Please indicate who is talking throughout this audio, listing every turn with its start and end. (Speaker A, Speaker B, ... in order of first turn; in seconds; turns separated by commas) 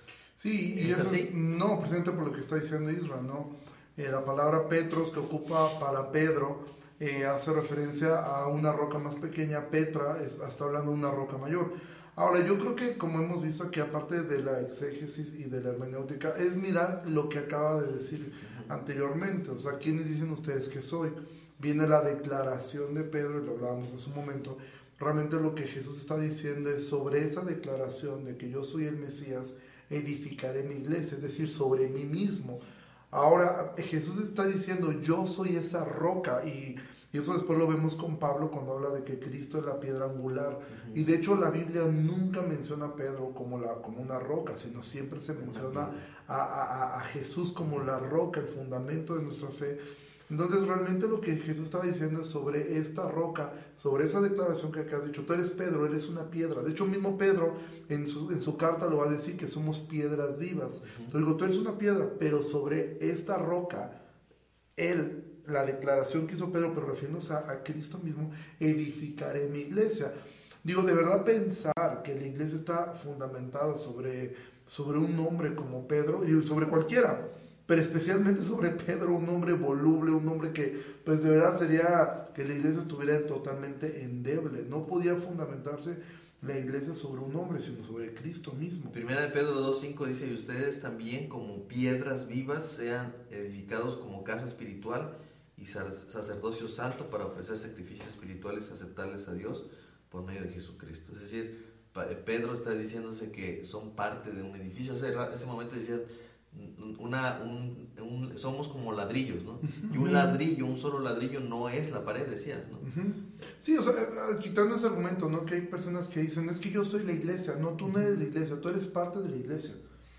Speaker A: 0.4-49.8, Speaker B: 0.7-1.3, Speaker B: 18.4-18.7, Speaker B: 40.7-41.0, Speaker B: 45.4-46.0, Speaker A: 50.3-63.9, Speaker B: 60.8-61.1, Speaker A: 64.8-70.1, Speaker A: 70.6-88.9, Speaker B: 88.9-112.8, Speaker A: 109.8-110.3, Speaker A: 112.8-119.8